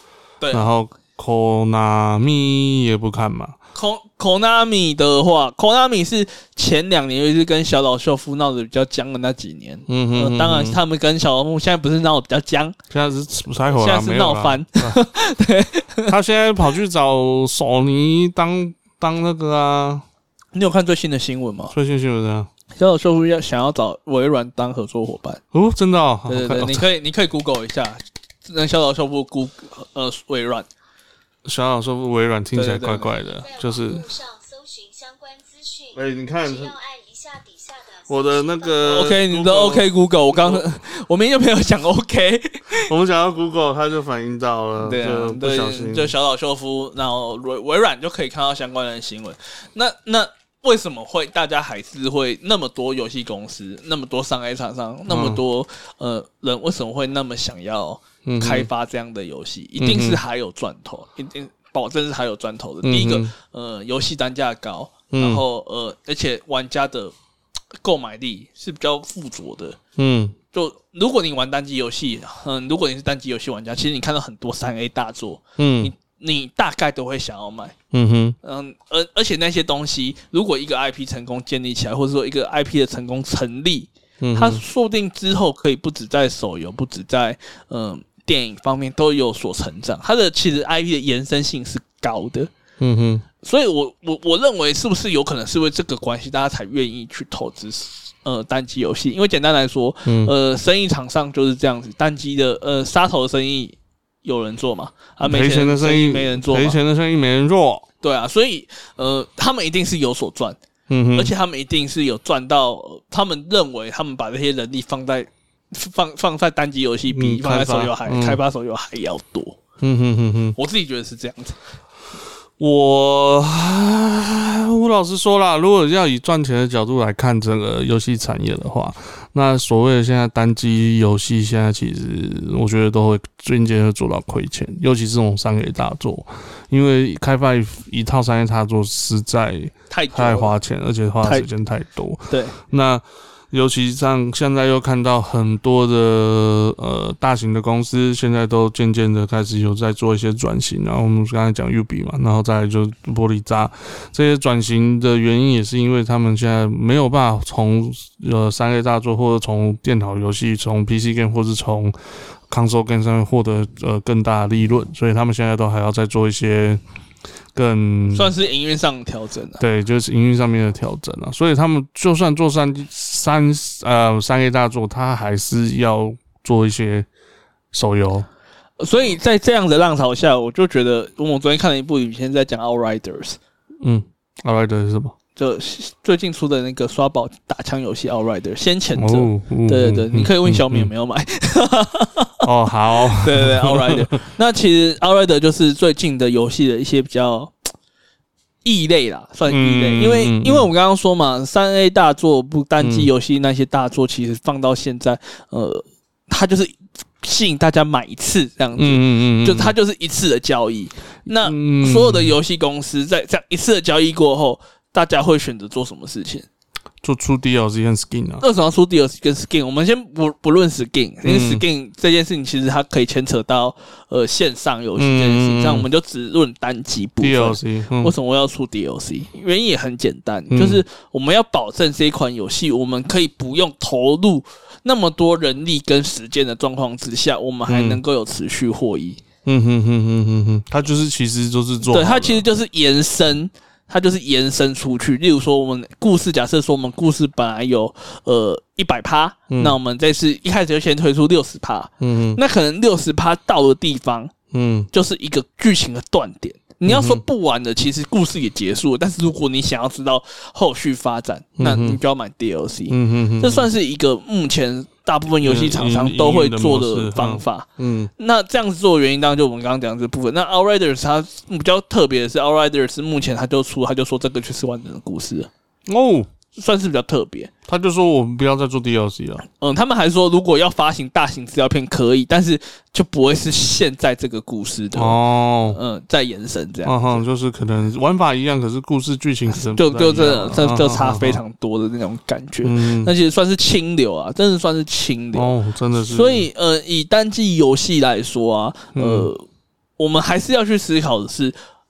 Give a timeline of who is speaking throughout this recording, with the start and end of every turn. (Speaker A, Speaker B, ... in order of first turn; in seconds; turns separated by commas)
Speaker A: 0.4-0.7, Speaker B: 0.5-3.5, Speaker A: 3.8-12.8, Speaker B: 9.9-10.8, Speaker B: 12.9-15.0, Speaker A: 13.7-16.1, Speaker B: 16.1-20.0, Speaker A: 20.5-21.7, Speaker B: 21.7-22.5, Speaker A: 22.8-25.4, Speaker B: 25.5-26.8, Speaker A: 26.3-30.7, Speaker B: 31.4-34.0, Speaker A: 32.5-33.1, Speaker C: 33.2-39.0, Speaker B: 35.9-36.8, Speaker B: 38.1-40.6, Speaker A: 38.8-42.9, Speaker B: 42.9-46.1, Speaker A: 44.8-67.1, Speaker B: 55.1-55.4, Speaker B: 58.2-58.7, Speaker B: 59.8-60.2, Speaker B: 62.8-63.3, Speaker B: 65.1-65.4, Speaker A: 67.8-69.8, Speaker B: 70.0-70.4, Speaker A: 70.5-77.8, Speaker B: 75.6-75.9, Speaker B: 77.9-78.4, Speaker A: 78.4-92.5, Speaker B: 84.2-84.6, Speaker B: 92.8-93.2, Speaker A: 93.4-106.8, Speaker B: 100.0-100.3, Speaker B: 105.2-107.9, Speaker A: 108.0-110.6, Speaker B: 110.9-111.3, Speaker A: 111.1-119.6, Speaker B: 117.1-118.4, Speaker B: 119.8-120.5, Speaker A: 120.5-121.5, Speaker B: 122.6-161.9, Speaker A: 139.9-140.5, Speaker A: 142.3-142.6, Speaker B: 162.5-166.8, Speaker B: 167.5-168.3, Speaker A: 168.1-169.6, Speaker B: 169.6-177.1, Speaker B: 177.7-178.3, Speaker A: 178.8-183.4, Speaker B: 183.8-185.1, Speaker A: 185.4-192.5, Speaker B: 188.9-190.9, Speaker B: 192.4-194.2, Speaker A: 193.0-197.5, Speaker A: 198.6-216.5, Speaker B: 199.5-200.7, Speaker B: 202.8-203.1, Speaker B: 208.8-209.8, Speaker B: 211.3-212.3, Speaker B: 217.0-218.4, Speaker A: 218.4-239.2, Speaker B: 221.2-221.6, Speaker B: 225.0-225.9, Speaker B: 227.2-228.1, Speaker B: 230.5-230.8, Speaker B: 237.7-238.0, Speaker B: 239.4-242.4, Speaker A: 241.9-254.3, Speaker B: 249.5-249.8, Speaker B: 252.0-252.4, Speaker B: 254.5-254.9, Speaker A: 254.9-275.5, Speaker B: 256.9-257.2, Speaker B: 261.6-262.0, Speaker B: 262.9-263.7, Speaker B: 265.4-268.1, Speaker B: 275.9-276.3, Speaker A: 276.6-277.5, Speaker B: 277.7-279.4, Speaker A: 279.6-287.2, Speaker B: 284.9-285.8, Speaker B: 286.9-291.4, Speaker A: 289.6-299.4, Speaker B: 292.6-293.1, Speaker B: 295.4-296.5, Speaker B: 298.9-299.3, Speaker A: 300.0-301.5